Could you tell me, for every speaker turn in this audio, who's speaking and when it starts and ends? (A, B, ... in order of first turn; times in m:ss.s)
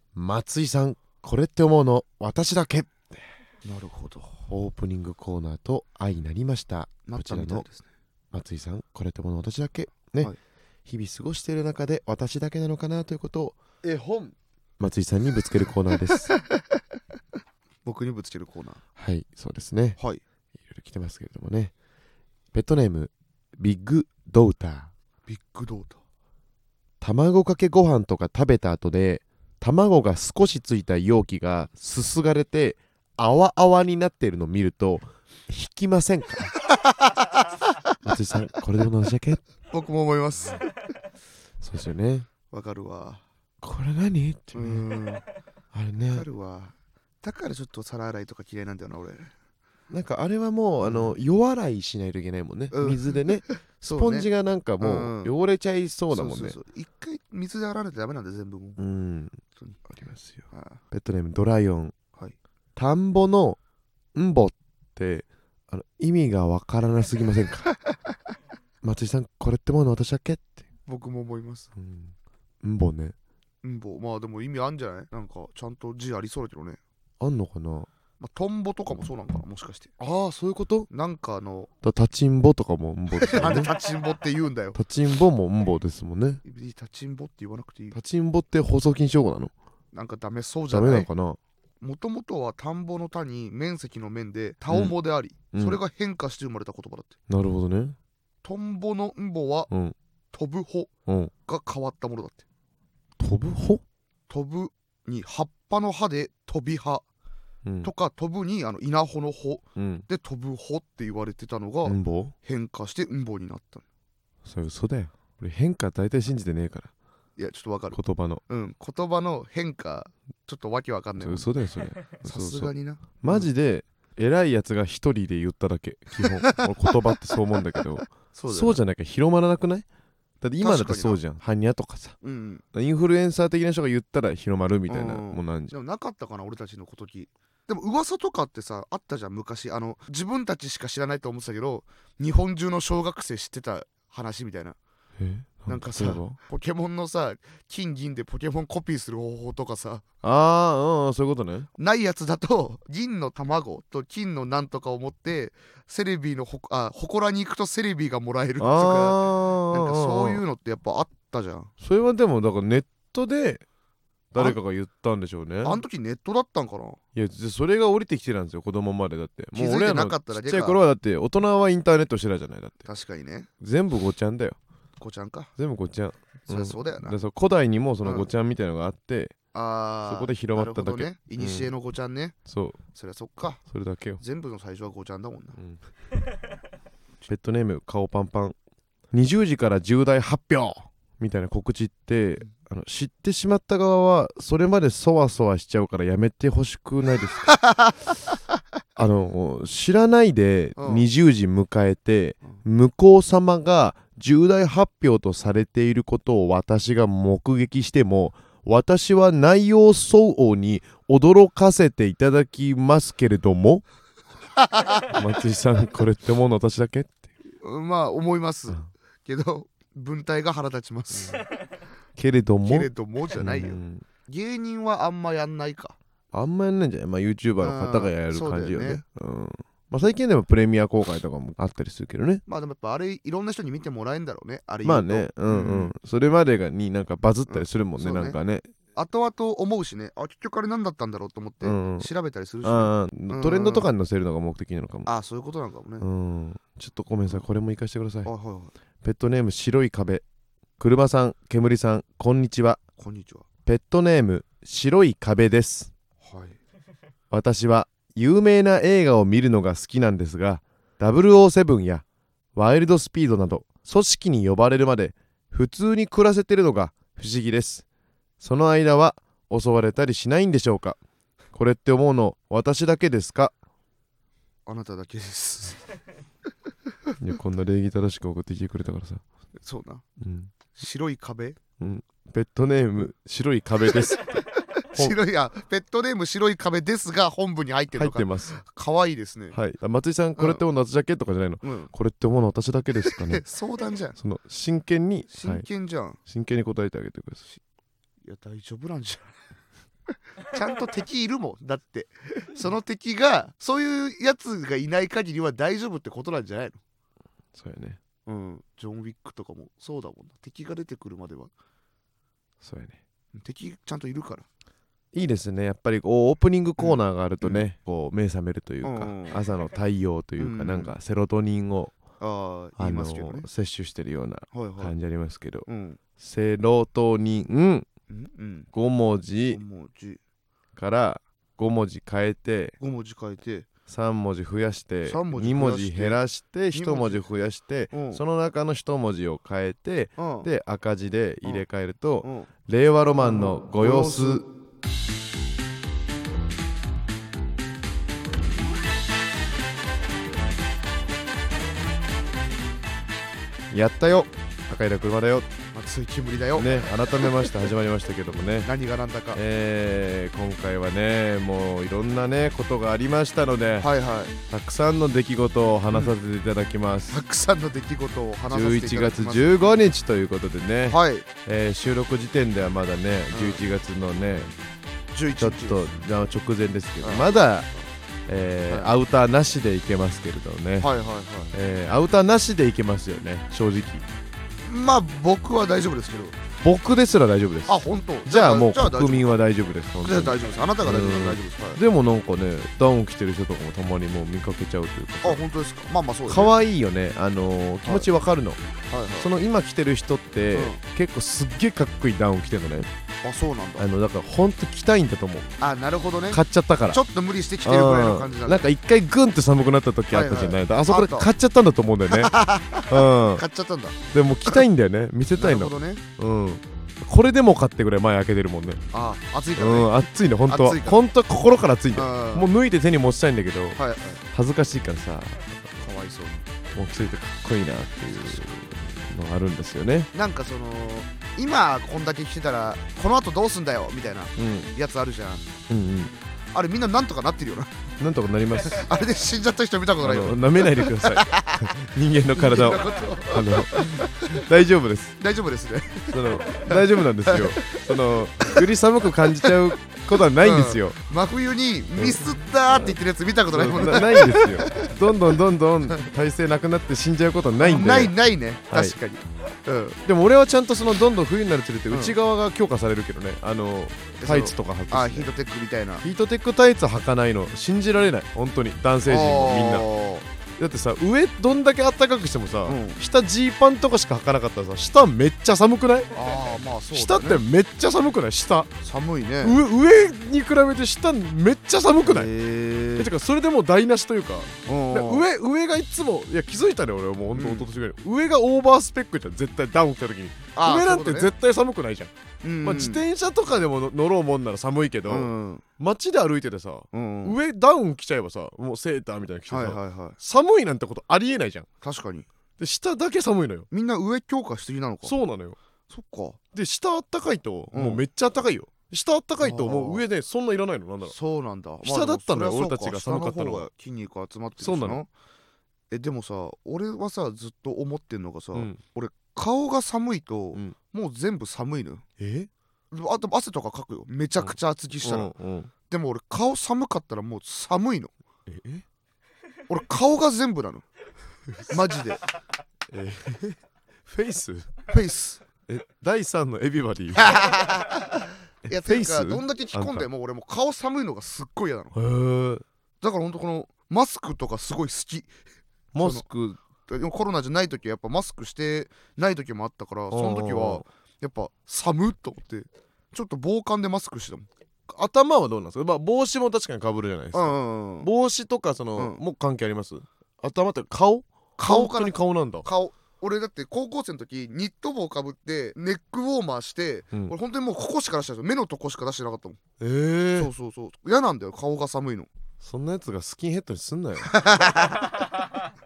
0:00.1-0:03.2 A
0:03.6-0:04.3 B
0:04.5-0:07.6 A
0:07.1-0:07.8 B
0:08.3-0:10.3 A
0:10.9-0:16.4 A
0:16.1-0:16.6 B
0:17.8-0:18.8 B
0:19.0-0:20.0 A
0:20.7-0:21.7 A
0:22.5-0:24.9 A
0:25.3-0:26.0 B
0:27.0-0:36.6 A
0:36.7-0:37.5 B
0:38.0-0:39.4 A
0:39.7-0:40.6 B
0:41.6-0:42.3 A
0:42.5-0:43.2 B
0:43.6-0:44.8 A
0:44.5-0:45.2 B
0:45.7-0:46.2 A
0:46.1-0:49.3 B
0:49.9-0:56.6 A
0:50.8-0:51.1 B
0:52.7-0:54.3 B
0:54.8-0:55.3 B
0:56.1-0:58.8 B
0:58.8-1:01.9 A
0:59.6-0:59.8 B
1:00.5-1:00.8 B
1:02.8-1:03.6 A
1:04.1-1:07.7 A
1:08.8-1:10.6 A
1:10.9-1:11.7 B
1:11.8-1:13.1 A
1:13.6-1:16.8 B
1:17.2-1:17.9 A
1:18.2-1:19.9 B
1:20.0-1:20.9 A
1:20.9-1:21.7 B
1:21.8-1:23.7 A
1:23.2-1:24.8 B
1:24.7-1:26.4 A
1:26.4-1:28.0 B
1:27.9-1:29.5 A
1:29.9-1:31.1 B
1:30.7-1:31.4 A
1:31.8-1:37.1 B
1:35.5-1:35.8 A
1:37.3-1:38.0 A
1:38.4-1:39.7 B
1:39.7-1:39.9 A
1:40.3-1:40.9 B
1:41.5-1:42.4 B
1:43.2-1:43.8 A
1:44.3-1:47.0 B
1:47.6-1:47.9 A
1:47.8-1:53.8 B
1:49.8-1:50.1 A
1:51.8-1:52.3 A
1:54.4-1:56.9 A
1:57.4-2:01.5 B
1:57.9-1:58.4 A
2:01.2-2:09.8 A
2:02.2-2:03.5 B
2:06.2-2:06.6 B
2:08.3-2:08.8 B
2:10.4-2:12.2 A
2:10.6-2:11.2 B
2:12.2-2:12.6 B
2:12.7-2:15.7 A
2:14.9-2:24.8 B
2:25.2-2:26.4 A
2:25.7-2:30.0 B
2:30.2-2:31.7 A
2:31.8-2:41.7 B
2:38.6-2:40.4 A
2:41.8-2:43.6 A
2:44.3-2:45.8 A
2:45.6-2:47.0 B
2:47.1-2:52.8 A
2:49.5-2:50.8 B
2:52.8-2:53.5 B
2:53.6-2:54.6 A
2:55.0-2:55.5 B
2:55.6-2:59.3 A
2:56.5-2:57.2 B
2:59.5-3:02.4 B
3:00.1-3:01.7 A
3:02.4-3:02.8 A
3:02.9-3:03.6 B
3:03.7-3:04.2 A
3:04.2-3:05.6 B
3:07.3-3:08.6 A
3:09.1-3:17.5 A
3:17.5-3:17.9 B
3:19.0-3:33.8 A
3:20.8-3:21.1 B
3:34.6-3:35.1 B
3:35.1-3:37.3 A
3:37.6-3:41.4 B
3:42.2-3:44.0 A
3:42.6-3:46.0 B
3:46.3-3:52.4 A
3:47.6-3:49.0 B
3:52.5-3:55.9 B
3:54.8-3:58.7 A
3:57.5-3:58.4 B
3:58.9-4:03.9 B
4:01.6-4:02.1 A
4:02.6-4:05.1 A
4:05.0-4:06.0 B
4:06.0-4:08.3 A
4:08.2-4:08.7 B
4:09.0-4:10.2 A
4:10.8-4:12.8 A
4:13.0-4:13.4 B
4:13.6-4:15.9 A
4:16.2-4:16.6 B
4:17.3-4:22.0 A
4:22.5-4:27.8 A
4:28.4-4:31.0 A
4:31.5-4:33.5 A
4:34.6-4:35.8 B
4:37.2-4:39.2 A
4:39.6-4:40.0 B
4:40.2-4:40.5 A
4:40.7-4:41.6 B
4:41.8-4:45.2 A
4:44.9-4:49.6 B
4:47.9-4:48.6 A
4:49.5-4:53.4 A
4:51.6-4:51.9 B
4:53.0-4:54.2 B
4:54.2-4:55.6 A
4:55.3-4:56.2 B
4:56.2-4:57.5 A
4:58.2-4:59.3 B
5:00.5-5:06.8 B
5:07.5-5:08.0 A
5:08.2-5:11.5 B
5:12.6-5:13.0 A
5:13.3-5:14.4 B
5:15.1-5:22.0 A
5:16.8-5:17.6 B
5:18.8-5:19.4 B
5:20.4-5:20.9 B
5:22.2-5:23.5 B
5:22.8-5:25.6 A
5:24.5-5:24.9 B
5:25.7-5:26.0 B
5:26.2-5:27.9 A
5:28.1-5:28.7 B
5:28.7-5:29.6 A
5:29.5-5:30.2 B
5:30.8-5:32.8 A
5:32.8-5:33.7 B
5:33.9-5:44.5 A
5:35.0-5:36.2 B
5:36.7-5:37.2 B
5:37.9-5:38.2 B
5:40.2-5:40.5 B
5:42.2-5:42.5 B
5:43.2-5:44.4 B
5:53.7-5:55.5 A
5:55.7-5:57.5 B
5:56.5-5:58.7 A
5:58.6-5:59.4 B
5:59.3-6:03.9 A
6:03.8-6:04.3 B
6:04.5-6:07.2 A
6:07.1-6:09.8 B
6:08.5-6:14.5 A
6:10.9-6:11.3 B
6:13.3-6:13.6 B
6:15.1-6:15.8 B
6:15.4-6:17.7 A
6:17.0-6:17.3 B
6:18.3-6:20.9 A
6:18.7-6:18.9 B
6:20.8-6:21.5 B
6:21.5-6:24.0 A
6:24.6-6:26.4 B
6:26.6-6:35.4 A
6:27.7-6:29.4 B
6:30.0-6:31.8 B
6:35.2-6:36.5 B
6:36.3-6:38.6 A
6:38.9-6:39.3 B
6:39.2-6:42.9 A
6:40.5-6:40.8 B
6:43.2-6:43.9 B
6:43.8-6:45.5 A
6:45.6-6:48.6 B
6:46.3-6:47.0 A
6:47.6-6:52.3 A
6:50.1-6:51.3 B
6:52.1-6:54.6 B
6:52.9-6:53.4 A
6:54.1-6:58.8 A
6:55.4-6:56.0 B
6:58.9-7:01.0 B
6:59.6-7:05.6 A
7:01.9-7:02.5 B
7:03.8-7:04.2 B
7:05.8-7:06.5 B
7:06.7-7:10.1 A
7:08.1-7:08.5 B
7:10.1-7:15.4 B
7:14.4-7:14.7 A
7:15.7-7:16.1 A
7:16.5-7:17.7 B
7:18.0-7:18.9 A
7:18.7-7:21.7 B
7:20.0-7:25.2 A
7:22.4-7:24.4 B
7:25.2-7:28.6 B
7:26.1-7:31.0 A
7:30.4-7:35.3 B
7:32.0-7:33.0 A
7:33.5-7:38.1 A
7:37.6-7:40.0 B
7:38.7-7:39.0 A
7:40.0-7:45.3 A
7:41.9-7:42.1 B
7:44.2-7:46.0 B
7:46.0-7:49.9 A
7:49.0-7:50.3 B
7:50.6-7:56.1 A
7:52.6-7:53.0 B
7:56.1-7:57.4 B
7:56.9-7:58.7 A
7:58.8-7:59.6 B
7:59.4-8:02.3 A
8:02.0-8:03.1 B
8:03.0-8:12.1 A
8:04.6-8:05.2 B
8:07.3-8:07.7 B
8:10.5-8:11.3 B
8:12.4-8:13.0 B
8:12.6-8:21.7 A
8:15.1-8:15.6 B
8:16.9-8:17.4 B
8:19.5-8:20.2 B
8:21.8-8:22.3 B
8:22.6-8:23.7 A
8:23.7-8:25.2 B
8:25.0-8:25.6 A
8:25.9-8:26.4 B
8:26.5-8:31.1 A
8:27.7-8:28.0 B
8:29.4-8:30.0 B
8:31.1-8:35.1 B
8:31.8-8:33.7 A
8:34.6-8:35.0 A
8:35.9-8:42.0 B
8:38.5-8:38.8 A
8:42.2-8:42.5 A
8:42.9-8:45.3 B
8:44.4-8:45.7 A
8:45.9-8:48.1 B
8:48.5-8:48.8 A
8:49.7-8:50.8 B
8:51.7-8:52.2 B
8:52.9-8:54.7 A
8:54.9-8:55.4 B
8:55.7-8:57.5 A
8:57.1-9:01.9 B
8:58.6-9:00.1 A
9:01.9-9:02.6 A
9:03.0-9:05.3 B
9:05.9-9:06.6 A
9:06.0-9:06.2 B
9:06.9-9:14.5 B
9:10.1-9:10.8 A
9:14.9-9:22.7 A
9:17.3-9:18.1 B
9:21.6-9:29.6 B
9:29.8-9:30.5 A
9:30.4-9:32.3 B
9:32.6-9:34.4 A
9:34.3-9:35.2 B